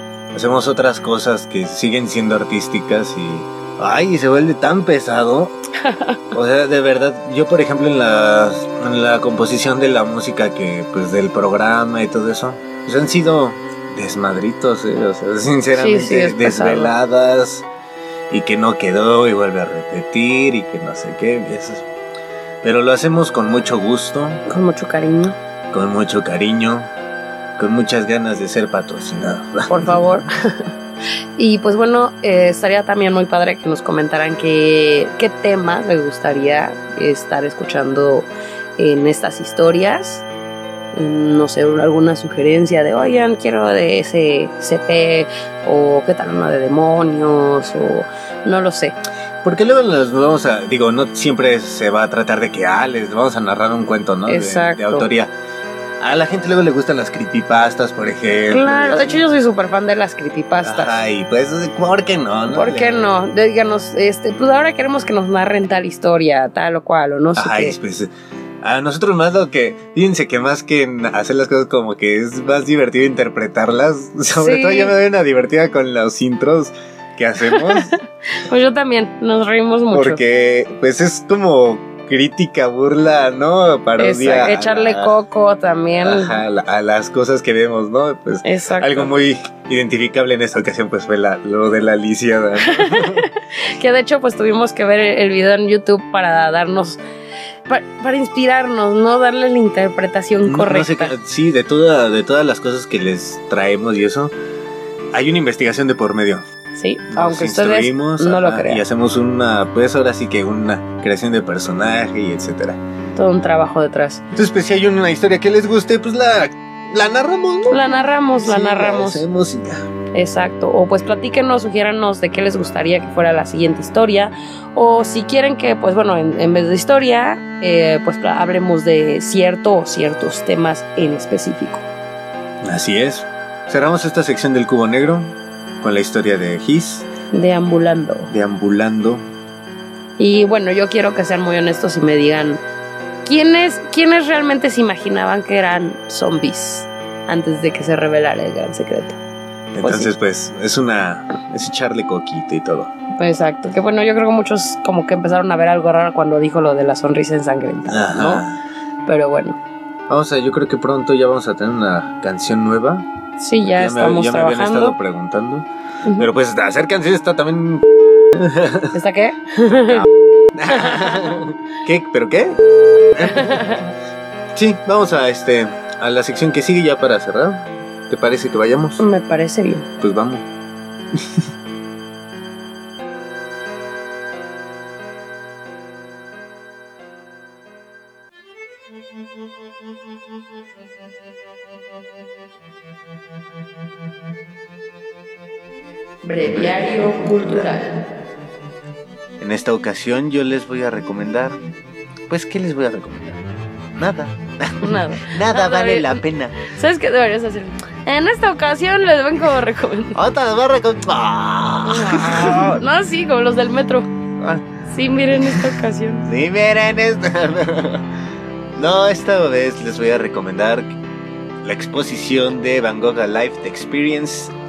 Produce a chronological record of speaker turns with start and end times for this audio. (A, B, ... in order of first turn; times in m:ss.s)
0:00.3-0:05.6 A
0:05.8-0:06.2 B
0:06.3-0:17.7 A
0:15.7-0:17.0 B
0:18.3-0:21.9 A
0:22.6-0:24.4 A
0:24.5-0:25.4 B
0:25.7-0:26.9 A
0:27.6-0:30.3 A
0:29.7-0:30.7 B
0:31.4-0:40.3 B
0:40.9-0:49.0 B
0:49.4-0:55.3 A
0:54.3-0:55.1 B
0:56.0-0:59.2 A
0:58.5-1:01.0 B
1:00.6-1:03.1 A
1:02.5-1:07.8 B
1:07.4-1:08.1 A
1:08.6-1:18.0 A
1:14.4-1:15.0 B
1:17.4-1:20.2 B
1:19.9-1:25.1 A
1:24.0-1:26.4 B
1:26.0-1:33.3 A
1:28.4-1:29.1 B
1:32.8-1:37.0 B
1:37.7-1:41.1 B
1:40.4-1:44.3 A
1:45.1-1:46.4 A
1:46.8-1:48.8 B
1:47.1-1:52.8 A
1:53.2-1:54.2 B
1:54.4-1:59.9 A
1:57.7-1:59.2 B
2:00.1-2:11.9 B
2:12.6-2:17.1 A
2:17.3-2:18.3 B
2:18.3-2:19.2 A
2:20.2-2:22.6 B
2:23.2-2:29.2 B
2:29.7-2:32.9 A
2:29.8-2:30.1 B
2:33.1-2:38.4 B
2:37.9-2:38.6 A
2:39.1-2:39.6 B
2:40.1-2:43.1 A
2:43.4-2:45.0 B
2:43.6-2:48.9 A
2:46.0-2:46.3 B
2:48.9-2:50.1 B
2:49.7-2:52.6 A
2:50.7-2:51.3 B
2:53.2-2:53.7 A
2:53.3-2:53.9 B
2:54.5-2:59.0 A
2:59.0-2:59.9 B
3:00.0-3:00.5 A
3:16.2-3:17.9 B
3:16.5-3:17.6 A
3:19.4-3:21.6 A
3:22.3-3:23.4 A
3:24.0-3:26.6 A
3:24.8-3:30.2 B
3:30.2-3:32.8 A
3:31.8-3:34.1 B
3:34.4-3:34.7 A
3:34.9-3:36.3 B
3:35.4-3:38.1 A
3:38.8-3:41.0 A
3:41.6-3:44.5 A